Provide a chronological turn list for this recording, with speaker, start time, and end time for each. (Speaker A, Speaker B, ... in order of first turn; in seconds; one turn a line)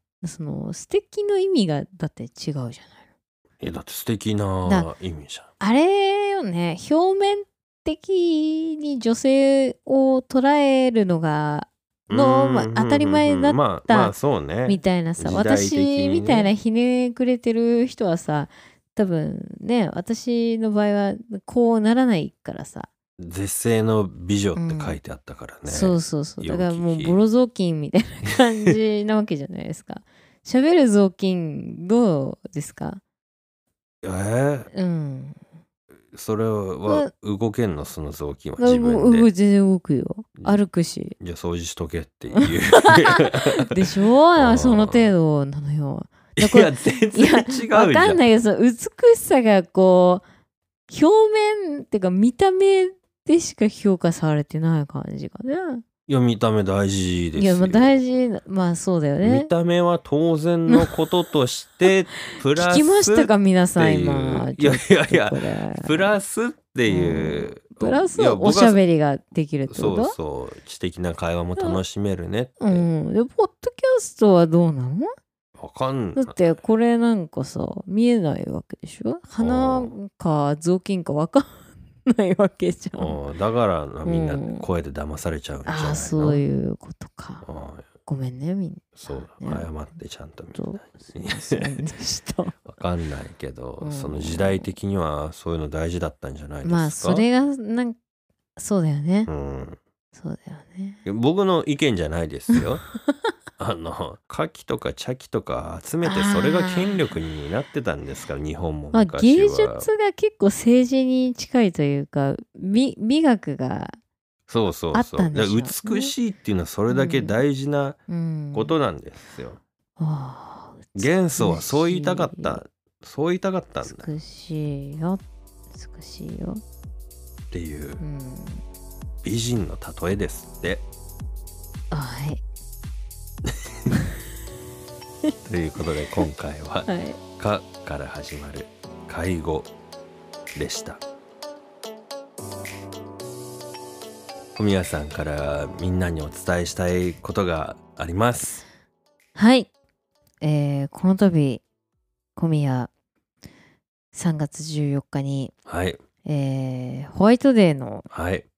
Speaker A: 0.2-3.0
Speaker B: 3.6-5.5
Speaker A: 4.6-4.9
Speaker A: 5.6-14.1
Speaker B: 12.1-16.5
Speaker A: 14.7-22.9
Speaker B: 23.2-27.2
Speaker A: 24.6-25.0
Speaker A: 25.6-33.0
Speaker B: 34.0-34.7
Speaker A: 34.7-35.4
Speaker B: 36.1-39.3
Speaker A: 38.6-41.1
Speaker B: 41.2-43.8
Speaker A: 42.3-50.2
Speaker B: 44.3-45.1
Speaker B: 46.4-48.2
Speaker A: 50.9-55.8
Speaker B: 56.1-58.0
Speaker A: 57.4-59.5
Speaker B: 59.2-68.8
Speaker A: 60.7-61.0
Speaker A: 61.9-66.1
Speaker A: 66.9-70.1
Speaker B: 69.7-72.9
Speaker A: 71.5-71.8
Speaker A: 72.6-75.1
Speaker B: 75.6-76.4
Speaker A: 76.2-83.2
Speaker B: 79.4-79.9
Speaker B: 83.0-86.4
Speaker A: 84.0-84.6
Speaker A: 85.7-87.5
Speaker B: 87.4-87.9
Speaker A: 88.0-89.7
Speaker B: 89.0-91.8
Speaker A: 90.5-92.6
Speaker B: 92.7-97.2
Speaker A: 93.8-94.8
Speaker A: 96.6-98.0
Speaker A: 98.6-99.3
Speaker B: 99.3-99.8
Speaker A: 100.1-101.0
Speaker B: 101.0-102.9
Speaker A: 102.5-103.1
Speaker B: 103.6-109.9
Speaker A: 106.0-107.1
Speaker A: 108.9-114.0
Speaker B: 114.5-118.0
Speaker A: 114.9-116.1
Speaker A: 116.9-117.4
Speaker A: 118.1-118.7
Speaker B: 118.5-119.6
Speaker A: 120.0-122.6
Speaker B: 121.0-124.1
Speaker A: 123.8-125.2
Speaker A: 125.7-126.6
Speaker B: 127.5-128.0
Speaker A: 128.0-128.6
Speaker B: 129.2-130.8
Speaker A: 131.9-132.4
Speaker B: 135.4-139.7
Speaker A: 136.9-137.2
Speaker B: 140.5-141.0
Speaker B: 144.6-148.6
Speaker A: 149.4-149.7
Speaker A: 150.4-151.6
Speaker A: 152.4-152.9
Speaker A: 154.1-155.5
Speaker B: 155.7-156.0
Speaker A: 156.2-158.1
Speaker B: 158.1-158.4